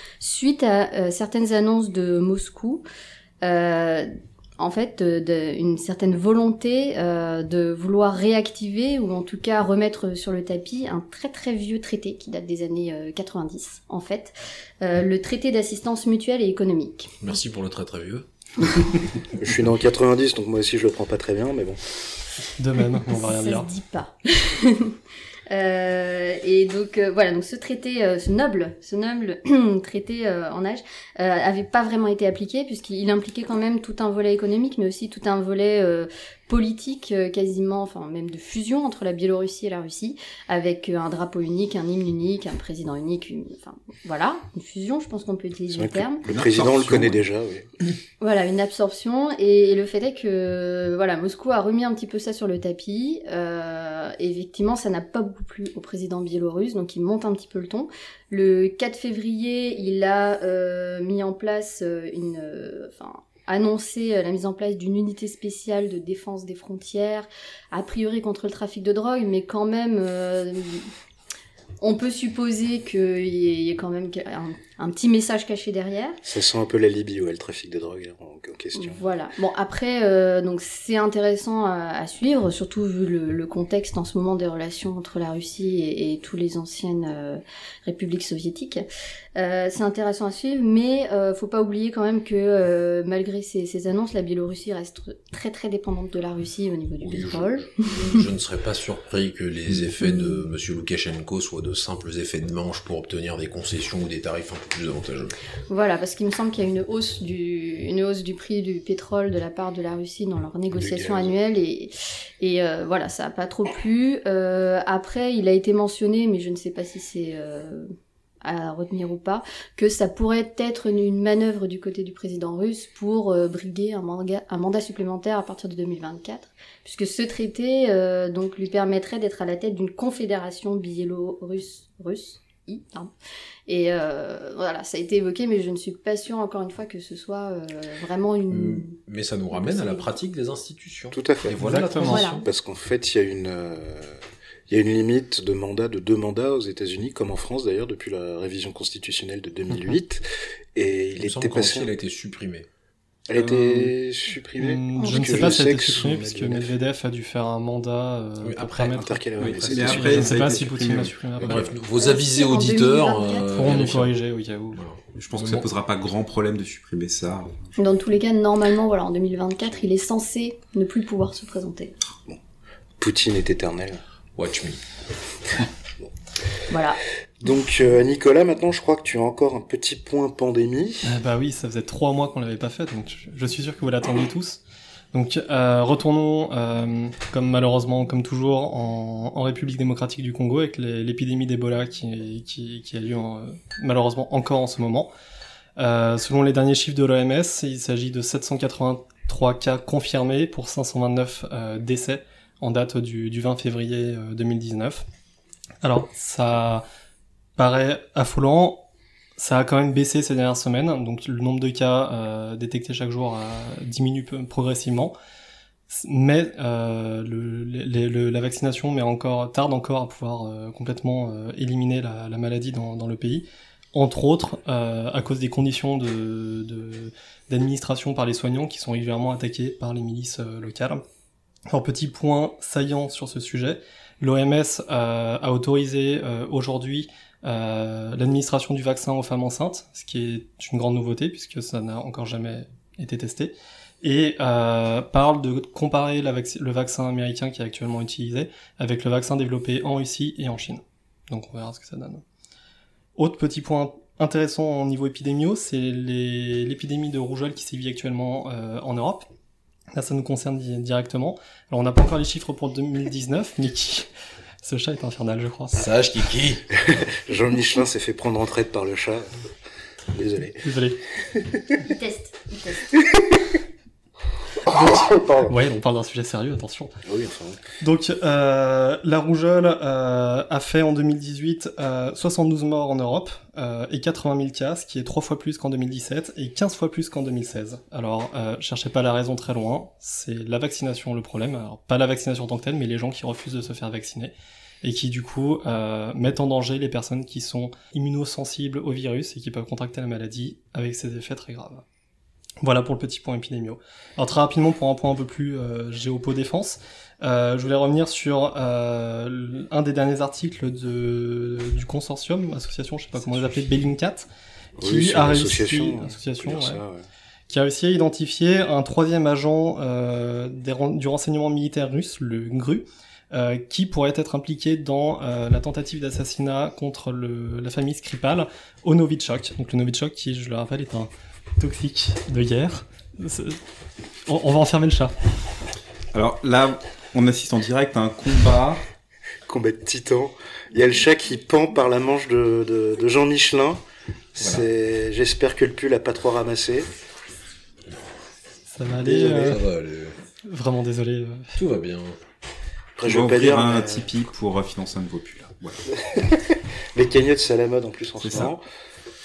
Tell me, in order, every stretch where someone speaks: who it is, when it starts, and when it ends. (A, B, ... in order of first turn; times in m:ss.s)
0:00.2-0:02.8 A
0:03.4-0:17.2 A
0:17.2-0:18.2 B
0:19.2-0:21.8 C
0:22.6-0:23.7 D
0:23.1-0:25.0 A
0:25.5-0:46.2 A
0:45.7-0:47.7 C
0:46.3-0:47.2 E
0:48.2-1:10.9 A
1:11.8-1:16.2 A
1:16.2-1:19.0 C
1:18.7-1:28.8 A
1:29.4-1:38.2 A
1:37.0-1:45.4 B
1:40.0-1:40.4 A
1:45.7-2:13.1 A
1:50.7-1:51.3 C
2:13.7-2:19.0 A
2:18.5-2:22.5 B
2:19.5-2:20.1 A
2:21.1-2:21.8 C
2:21.6-2:22.3 D
2:22.0-2:22.4 A
2:22.4-2:24.2 C
2:24.7-2:30.2 C
2:30.7-2:31.9 C
2:31.2-2:32.7 B
2:33.3-2:36.7 C
2:33.3-2:33.9 E
2:34.6-2:41.7 D
2:35.0-2:35.5 A
2:38.4-2:39.0 B
2:38.9-2:40.6 C
2:39.4-2:41.2 E
2:41.4-2:44.1 B
2:42.0-2:43.7 A
2:43.5-2:44.8 D
2:44.7-2:45.6 B
2:45.2-2:47.7 E
2:47.8-2:51.9 A
2:53.0-2:54.0 C
2:54.4-2:54.8 B
2:56.7-2:57.0 A
2:57.4-3:01.1 C
3:01.0-3:15.1 D
3:15.8-3:25.0 D
3:25.8-3:26.8 D
3:27.6-3:28.8 D
3:29.4-3:35.1 D
3:35.9-3:51.0 D
3:51.7-4:12.2 D
4:13.2-4:19.3 D
4:19.9-4:24.1 D
4:24.6-4:25.9 D
4:25.8-4:26.6 B
4:26.7-4:29.3 C
4:30.1-4:30.6 C
4:30.6-4:31.0 D
4:31.3-4:31.5 C
4:31.8-4:32.8 A
4:34.6-4:36.9 D
4:34.7-4:35.5 C
4:37.0-4:37.6 C
4:37.8-5:01.8 D
5:02.6-5:14.3 D
5:14.8-5:16.8 D
5:14.8-5:17.1 C
5:17.5-5:33.6 D
5:34.2-5:35.1 D
5:36.1-5:38.8 E
5:39.5-5:43.8 C
5:44.4-5:46.9 C
5:48.7-5:49.6 D
5:49.0-5:49.6 C
5:49.3-5:50.2 B
5:50.4-5:51.6 D
5:51.6-5:52.2 B
5:53.0-5:54.1 C
5:53.0-5:55.9 E
5:56.1-5:56.4 C
5:56.9-5:58.6 C
5:58.2-5:58.5 E